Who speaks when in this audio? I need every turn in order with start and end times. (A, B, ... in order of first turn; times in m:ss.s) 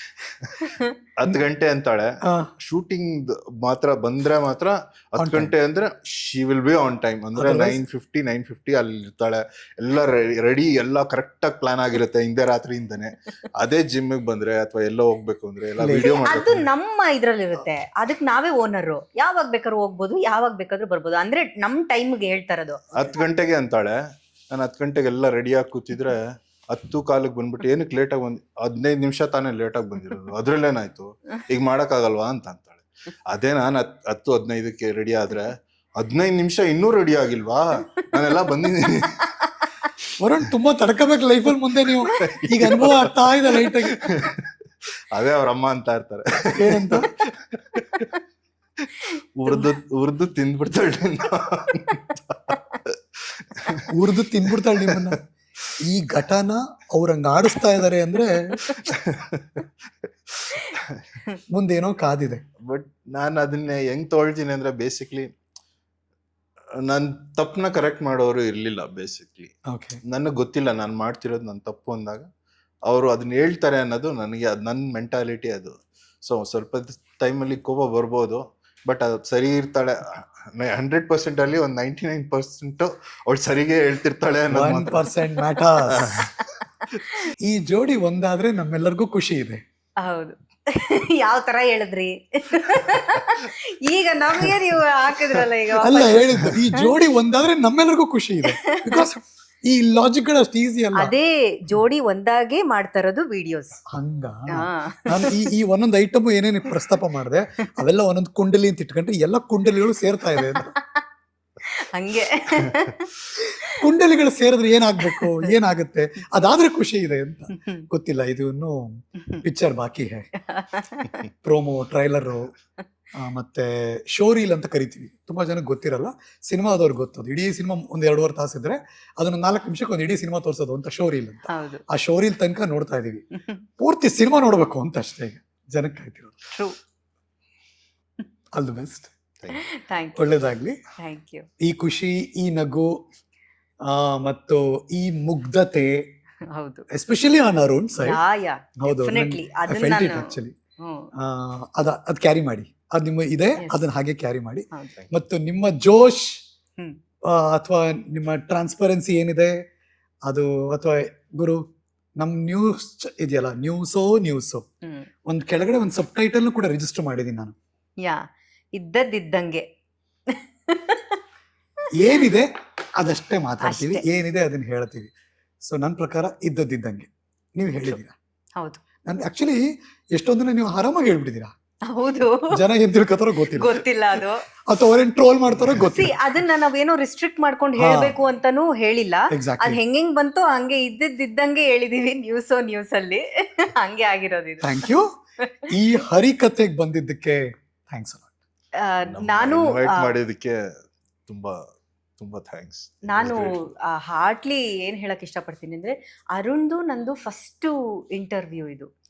0:00.6-0:00.9 A
0:01.2-0:02.1 B
0:02.6-0:16.7 B
0:05.2-0:05.5 C
0:07.4-0:07.8 C
0:15.8-0:16.1 C
0:15.9-0:22.9 A
0:23.0-0:24.0 B
0:24.5-0:39.2 B
0:40.2-0:44.1 C
0:41.9-0:43.1 B
0:43.7-0:44.4 B
0:45.1-0:47.0 B
0:46.6-0:47.1 C
0:47.6-0:48.0 B
0:49.4-0:53.0 B
0:53.9-0:55.2 C
0:54.6-0:55.1 B
0:55.8-0:58.6 C
0:58.9-0:59.6 B
1:00.4-1:00.8 B
1:00.5-1:01.4 A
1:01.5-1:02.4 C
1:02.6-1:05.3 B
1:06.8-1:09.5 B
1:09.7-1:10.0 C
1:10.1-1:12.2 B
1:12.9-1:20.0 B
1:20.6-1:25.0 B
1:24.5-1:26.2 C
1:25.9-1:26.3 B
1:27.4-1:29.6 C
1:30.0-1:36.9 A
1:35.8-1:41.1 C
1:38.5-1:39.1 A
1:41.0-1:43.8 A
1:43.9-1:50.7 C
1:44.5-1:45.4 A
1:50.4-1:51.0 A
1:51.9-1:53.8 A
1:53.7-2:00.3 C
1:55.0-1:55.6 A
1:57.5-1:57.8 A
2:00.4-2:01.2 A
2:01.4-2:02.5 C
2:03.2-2:13.2 C
2:11.5-2:11.8 A
2:13.4-2:13.6 A
2:13.8-2:16.4 C
2:18.6-2:19.1 C
2:19.5-2:20.3 A
2:20.2-2:20.8 C
2:21.0-2:21.5 A
2:21.6-2:23.0 C
2:23.9-2:26.1 C
2:26.5-2:26.9 A
2:26.9-2:28.2 C
2:28.0-2:31.1 A
2:28.8-2:30.6 C
2:31.2-2:36.4 C
2:33.6-2:33.8 A
2:37.2-2:39.6 C
2:40.3-2:41.6 C
2:42.2-2:44.6 C
2:45.3-2:47.5 C
2:48.7-2:49.6 A
2:50.3-2:51.2 A
2:52.0-2:55.1 C
2:53.6-2:54.0 A
2:55.6-2:58.1 C
2:59.0-3:01.5 C
3:01.9-3:02.5 A
3:02.5-3:03.7 C
3:03.5-3:04.4 A
3:04.7-3:06.1 C
3:05.8-3:14.9 A
3:07.8-3:08.2 C
3:09.3-3:09.8 C
3:14.6-3:15.1 C
3:15.7-3:18.3 C
3:18.8-3:20.1 A
3:19.1-3:20.6 B
3:21.3-3:21.6 B
3:22.2-3:23.5 B
3:23.1-3:28.9 A